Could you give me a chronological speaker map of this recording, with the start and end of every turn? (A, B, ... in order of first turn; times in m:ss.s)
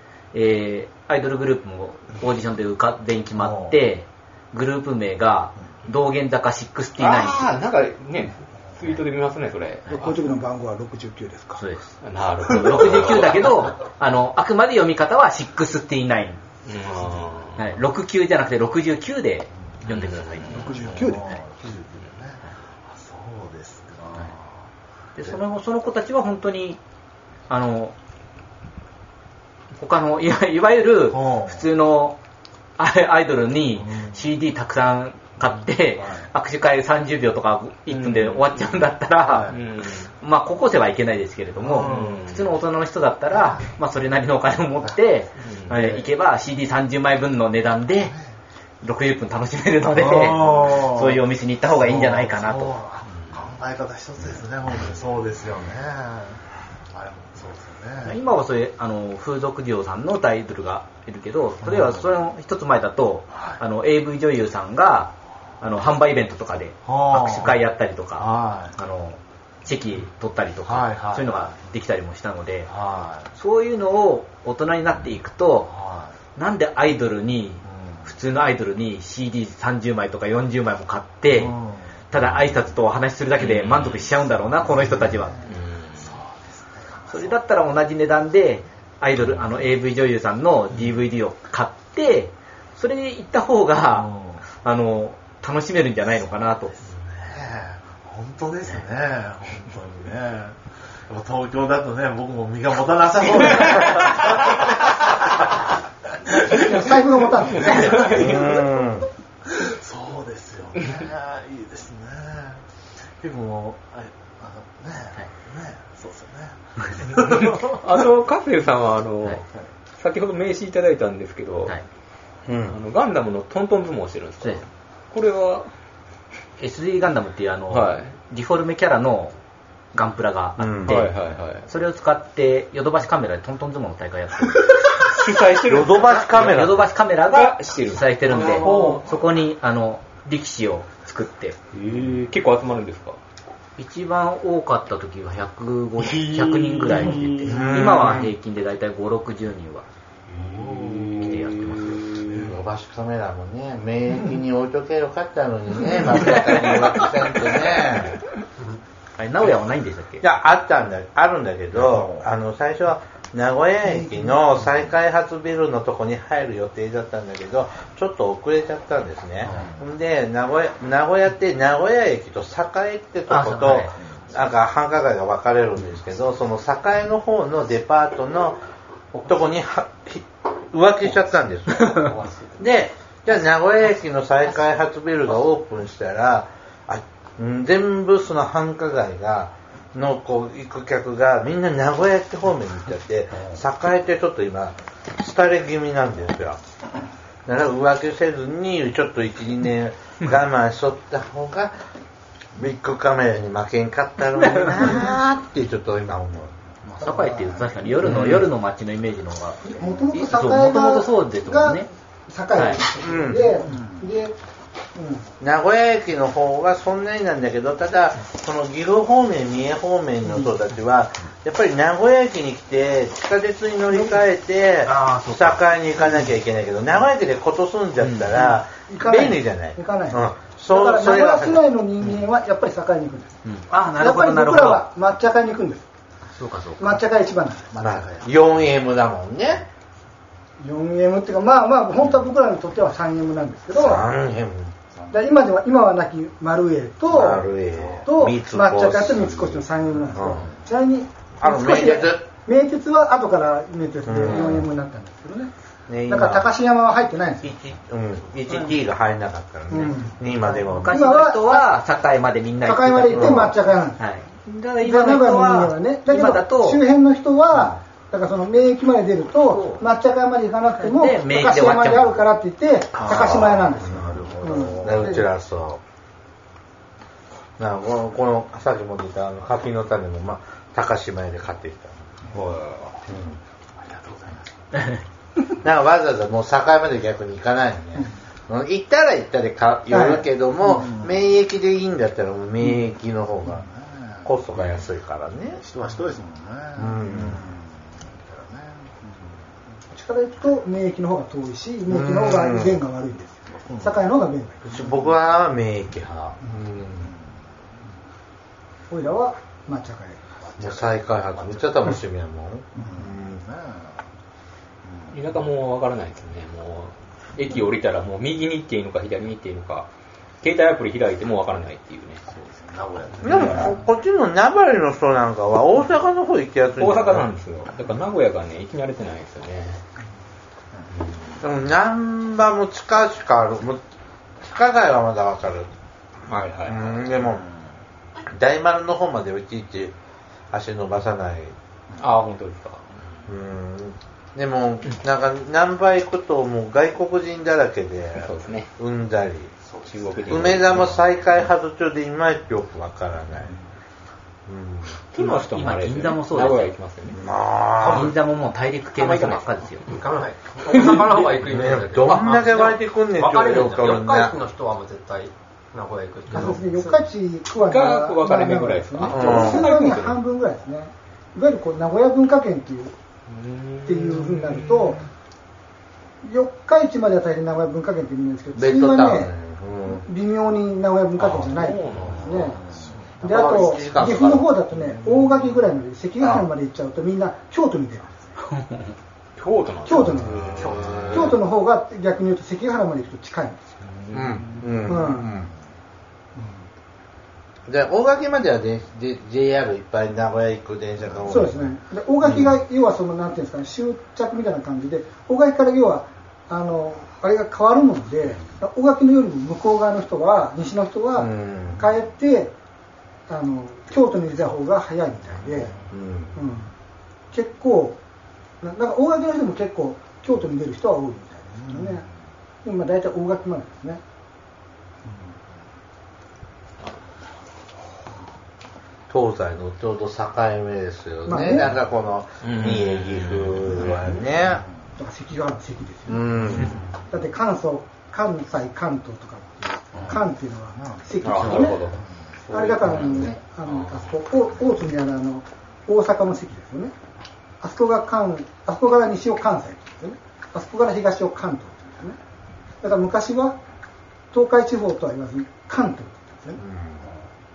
0:00.3-0:07.5 A
0:03.4-0:03.8 B
0:07.0-0:10.2 C
0:09.9-0:11.6 D
0:11.6-0:16.4 A
0:12.0-0:13.6 C
0:16.6-0:17.6 C
0:17.6-0:21.3 A
0:19.9-0:24.5 B
0:20.5-0:21.3 D
0:25.2-0:26.8 A
0:27.5-0:27.9 A
0:29.8-0:32.2 A
0:31.1-0:31.6 B
0:32.8-0:39.6 A
0:33.8-0:34.2 B
0:36.0-0:36.3 B
0:37.9-0:38.8 C
0:39.3-0:39.6 B
0:39.5-0:40.1 C
0:40.2-0:48.2 A
0:41.6-0:42.2 B
0:41.8-0:42.5 C
0:45.4-0:46.0 C
0:48.8-0:52.8 A
0:49.9-0:51.2 B
0:51.7-0:58.2 B
0:58.0-1:12.7 A
1:01.6-1:02.1 B
1:03.3-1:03.6 B
1:06.8-1:07.6 B
1:08.2-1:08.8 B
1:10.7-1:11.5 B
1:12.7-1:13.3 B
1:13.3-1:15.7 A
1:15.7-1:16.1 B
1:16.4-1:21.6 A
1:17.7-1:18.1 B
1:21.3-1:22.4 B
1:22.1-1:25.4 A
1:23.4-1:24.2 C
1:24.6-1:27.4 B
1:25.5-1:26.2 C
1:27.1-1:36.8 A
1:33.9-1:34.4 B
1:36.8-1:46.9 B
1:46.4-1:48.4 D
1:47.5-1:48.6 B
1:47.7-1:48.2 C
1:48.0-1:49.1 E
1:49.4-1:52.6 B
1:53.2-1:57.8 B
1:57.3-1:59.4 C
2:00.0-2:01.7 C
2:02.5-2:02.8 E
2:02.7-2:05.7 C
2:06.6-2:09.3 A
2:07.7-2:08.1 C
2:09.9-2:14.8 A
2:10.6-2:11.0 E
2:10.9-2:11.7 C
2:14.9-2:16.5 C
2:15.6-2:16.9 E
2:16.0-2:21.6 A
2:17.3-2:19.1 C
2:18.7-2:19.0 B
2:21.7-2:23.2 C
2:23.8-2:29.9 A
2:26.0-2:28.1 C
2:27.5-2:28.3 E
2:30.3-2:32.5 C
2:30.6-2:31.2 B
2:31.2-2:32.1 A
2:32.2-2:32.6 B
2:32.4-2:38.2 E
2:39.2-2:40.2 A
2:40.2-2:58.6 E
2:41.7-2:42.3 B
2:44.0-2:44.2 D
2:49.5-2:49.8 B
2:53.3-2:54.0 A
2:59.1-3:16.6 E
3:17.5-3:21.7 E
3:22.6-3:26.5 E
3:24.4-3:25.1 A
3:26.9-3:31.9 A
3:27.0-3:27.8 D
3:28.0-3:28.4 E
3:29.6-3:34.4 D
3:32.5-3:32.8 A
3:33.0-3:33.6 E
3:33.7-3:34.0 B
3:35.0-3:35.3 D
3:35.4-3:51.6 E
3:44.9-3:45.6 A
3:48.0-3:48.3 A
3:48.4-3:53.3 D
3:53.4-3:54.8 A
3:54.0-3:55.9 D
3:56.3-3:57.0 A
3:56.8-3:57.7 D
3:57.7-3:58.6 B
3:57.8-3:59.7 E
4:00.6-4:04.0 D
4:03.7-4:04.7 E
4:05.1-4:07.5 D
4:07.1-4:09.5 E
4:07.7-4:08.0 B
4:08.0-4:15.5 D
4:10.1-4:10.5 E
4:11.4-4:12.3 E
4:14.1-4:14.7 E
4:15.9-4:16.5 E
4:16.1-4:17.5 D
4:17.4-4:21.0 E
4:19.7-4:21.7 D
4:20.8-4:26.8 A
4:22.6-4:24.0 D
4:23.2-4:23.6 E
4:24.8-4:35.3 D
4:29.4-4:29.8 A
4:30.7-4:32.2 A
4:32.9-4:35.1 B
4:33.1-4:35.8 E
4:37.6-4:42.2 E
4:42.3-4:43.0 C
4:43.1-4:43.4 E
4:43.8-4:44.9 B
4:45.6-4:53.6 E
4:49.9-4:50.3 D
4:50.7-4:51.1 B
4:53.5-4:54.9 B
4:54.2-4:55.6 E
4:55.4-4:59.4 B
4:56.8-4:57.4 E
4:59.9-5:04.9 D
5:01.9-5:02.8 E
5:03.5-5:04.0 B
5:04.7-5:07.1 E
5:08.9-5:10.2 D
5:10.4-5:11.9 B
5:10.6-5:13.4 E
5:12.8-5:14.0 B
5:14.9-5:15.2 B
5:15.1-5:19.9 C
5:20.4-5:22.2 C
5:22.3-5:23.8 B
5:23.2-5:27.3 E
5:23.3-5:23.7 C
5:26.8-5:29.8 C
5:31.0-5:31.4 C
5:31.4-5:33.8 E
5:34.4-5:35.7 E
5:36.3-5:37.0 C
5:36.7-5:37.5 E
5:38.3-5:40.0 E
5:40.5-5:41.5 E
5:42.0-5:43.0 C
5:43.3-5:49.5 E
5:48.2-5:48.7 C
5:49.6-5:50.8 B
5:49.9-5:51.0 C
5:50.3-5:53.5 E
5:54.5-5:55.0 E
5:55.1-5:57.2 C
5:55.2-5:56.7 A
5:57.1-5:58.2 E
5:57.8-5:59.9 A
5:59.2-6:07.0 F
6:01.4-6:04.4 E
6:06.3-6:12.9 D
6:07.6-6:10.2 C
6:09.1-6:09.7 E
6:13.3-6:15.0 C
6:13.9-6:15.0 D
6:16.2-6:19.3 D
6:18.6-6:20.0 E
6:19.8-6:22.6 D
6:21.2-6:22.6 C
6:22.0-6:23.3 B
6:23.2-6:24.5 E
6:23.2-6:28.2 D
6:24.8-6:25.5 B
6:26.2-6:26.5 E
6:29.4-6:31.1 C
6:29.8-6:33.6 D
6:30.2-6:31.4 B
6:30.7-6:31.4 E
6:33.8-6:34.6 C
6:34.1-6:35.5 E
6:34.8-6:35.4 D
6:37.7-6:41.7 E
6:41.3-6:52.5 D
6:42.2-6:42.6 E
6:51.2-6:51.8 E
6:53.3-6:55.8 D
6:55.9-6:56.3 E
6:56.4-6:56.7 D
6:57.3-6:58.0 D
6:58.6-7:02.1 D
7:01.6-7:02.0 B
7:02.6-7:04.0 D
7:09.1-7:14.6 E
7:11.3-7:11.7 D
7:12.4-7:13.9 C
7:14.4-7:14.6 B
7:15.0-7:21.9 D
7:16.1-7:16.8 E
7:21.2-7:24.0 C
7:22.5-7:26.9 D
7:27.6-7:32.2 D
7:32.8-7:33.6 D
7:34.3-7:36.6 D
7:36.6-7:37.0 E